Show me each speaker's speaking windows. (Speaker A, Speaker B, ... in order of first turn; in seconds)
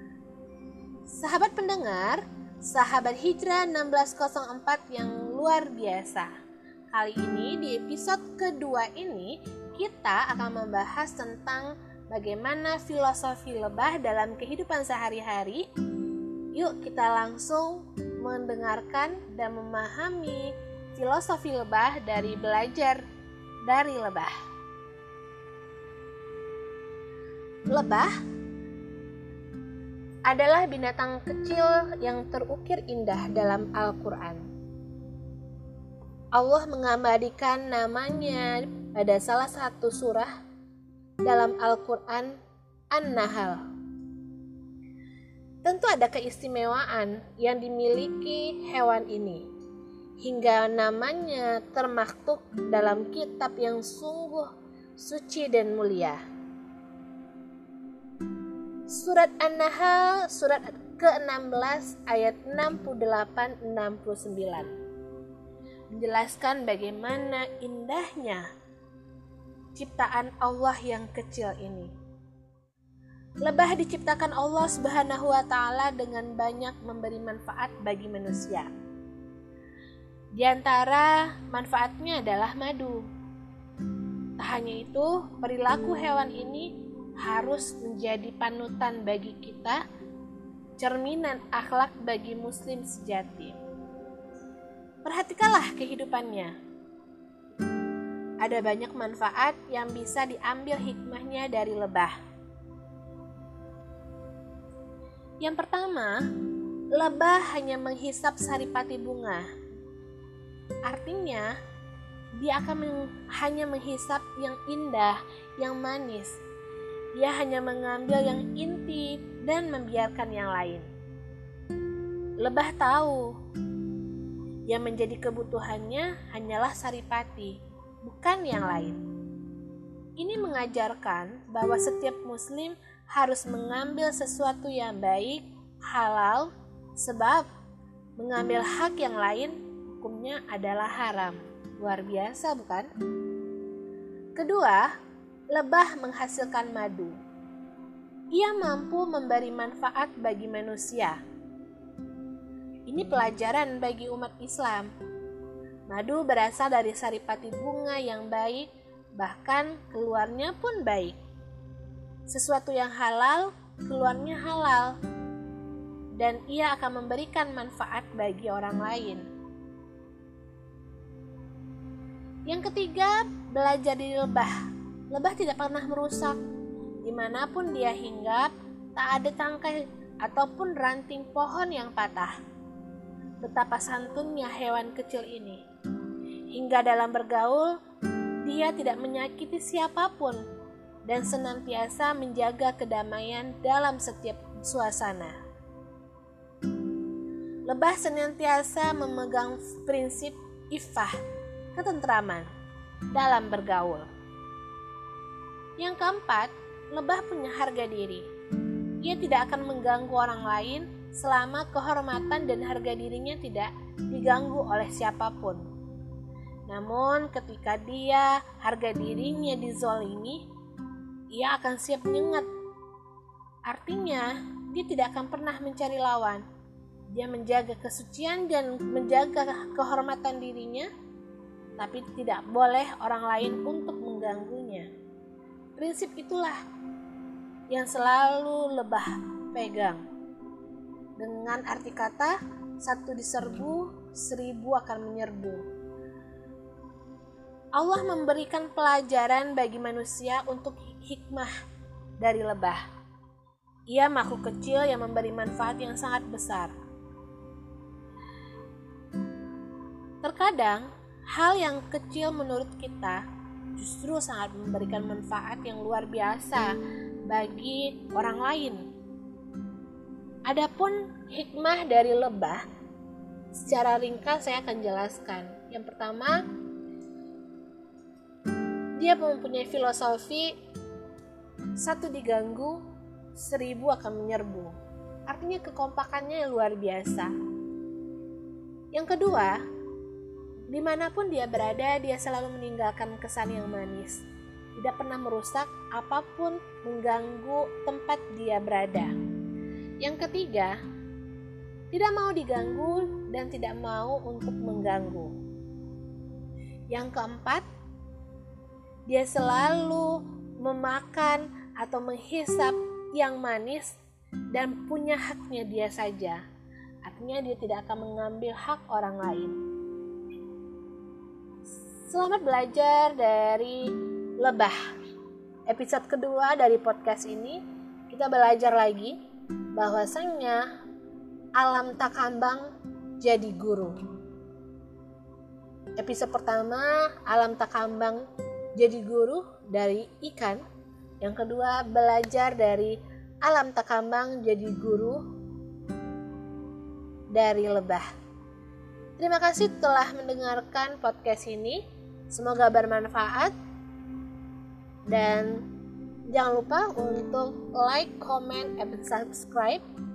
Speaker A: 1.1-6.3, 6.9-15.7, 16.5-23.0, 23.7-24.3, 27.7-28.1, 30.3-34.5, 36.3-40.3, 41.2-42.4, 42.9-43.6, 45.6-49.5, 50.2-56.2, 58.9-64.7, 65.9-68.5, 69.8-71.9, 73.4-78.7, 80.4-83.1, 84.4-89.8, 90.8-93.6, 95.0-96.5, 98.4-102.2, 105.4-106.2, 106.9-109.5, 110.9-111.5, 112.4-116.3, 117.2-120.9, 122.4-123.3, 124.7-129.0, 130.2-137.5, 138.2-142.9, 144.4-144.9, 145.5-147.2, 148.3-151.2, 152.9-154.9, 155.9-158.7, 159.2-161.2, 162.3-164.9, 166.2-169.2, 172.5-174.6, 175.1-176.4, 177.0-182.3, 183.4-185.6, 186.5-187.8, 188.4-190.4, 191.1-195.4, 197.7-201.1, 201.8-202.5, 203.1-204.1, 205.8-208.2, 209.0-215.6, 216.7-220.4, 221.3-222.5, 223.7-226.4, 227.1-230.9, 231.8-234.9, 235.8-236.6, 237.7-240.0, 241.2-245.6, 247.8-251.5, 252.2-252.8, 253.9-256.7, 260.2-263.2, 263.8-266.8, 267.3-268.8, 270.5-272.6, 273.6-276.4, 279.0-280.5, 281.8-282.8, 283.4-284.8, 285.3-287.3, 288.9-289.6, 290.7-294.2, 294.8-299.1, 300.0-300.8, 301.9-305.4, 306.9-307.6, 309.1-313.9, 314.5-316.4, 317.0-319.6, 322.1-324.8, 325.7-329.1, 329.8-330.6, 331.6-332.7, 333.2-334.0, 336.0-338.2, 338.8-340.6, 341.2-345.2, 347.3-348.1, 349.2-353.5, 355.1-355.7, 356.3-359.8